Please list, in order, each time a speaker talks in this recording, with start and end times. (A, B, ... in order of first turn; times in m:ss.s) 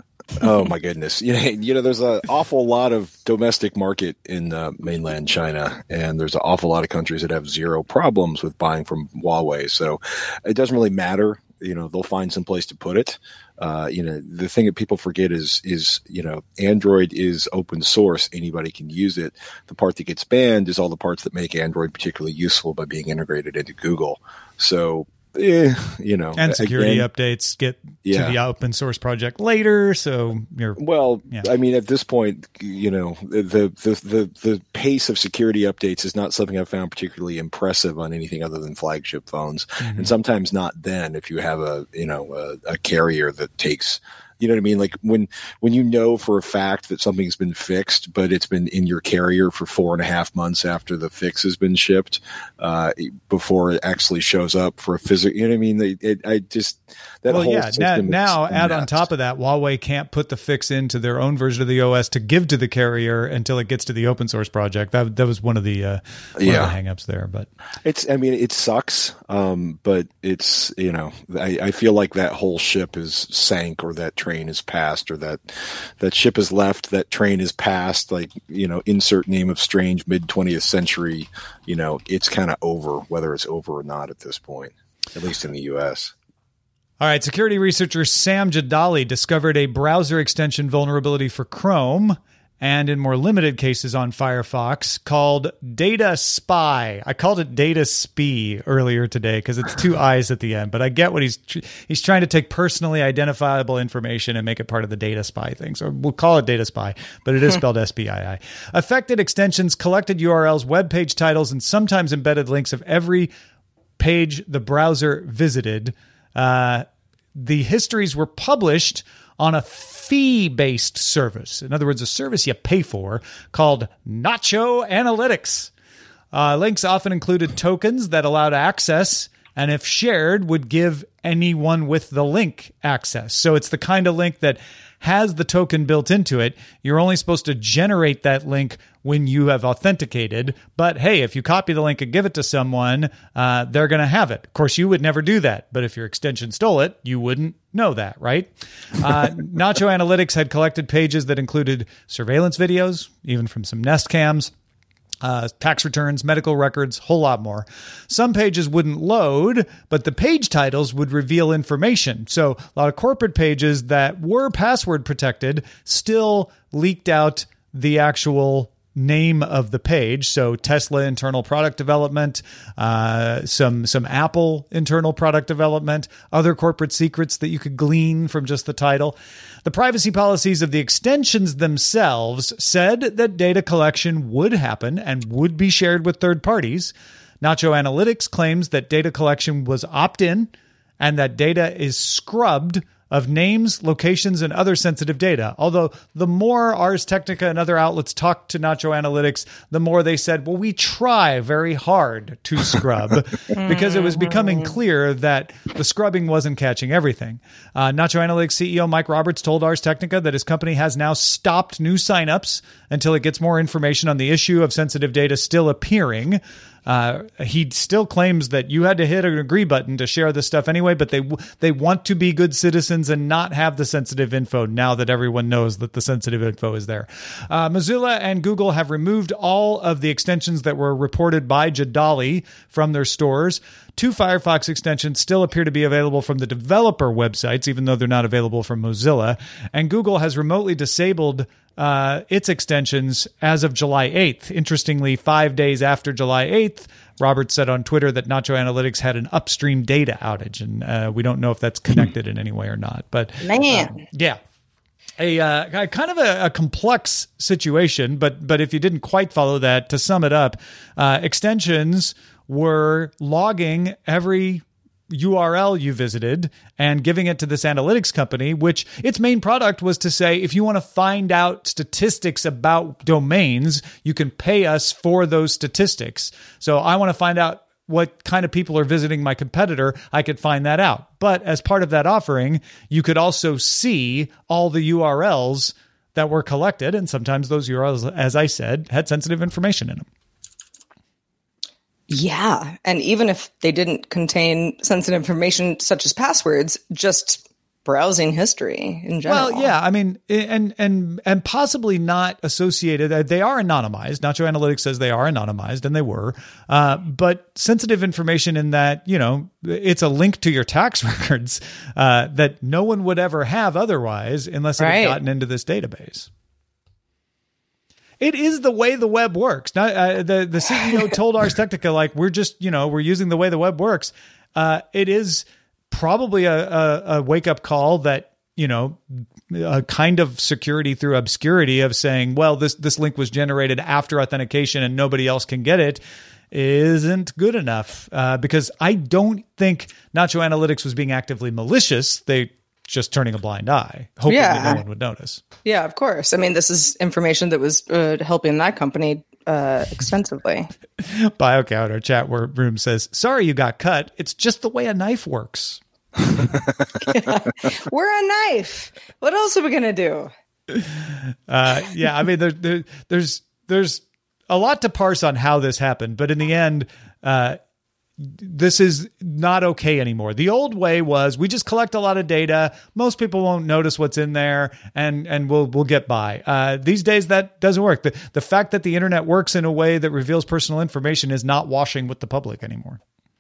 0:00.4-0:27.1 A
0:26.4-0:31.5 B
0:28.0-0:28.4 A
0:30.8-0:59.1 A
0:39.8-0:40.1 B
0:57.3-1:07.5 B
1:06.4-1:06.7 A
1:07.8-1:26.1 A
1:27.0-1:53.3 B
1:54.0-2:05.7 B
2:06.3-2:34.5 B
2:35.2-4:14.4 B
3:23.6-3:24.7 C
4:13.4-4:14.0 C
4:15.2-4:50.0 B
4:52.1-4:59.7 C
4:59.2-5:16.3 B
5:14.8-5:15.2 C
5:18.2-5:36.0 B
5:36.5-5:45.4 B
5:44.3-5:44.8 C
5:45.6-5:50.7 C
5:51.0-5:55.8 B
5:57.0-6:00.3 C
6:01.5-6:07.6 B
6:08.2-6:23.0 B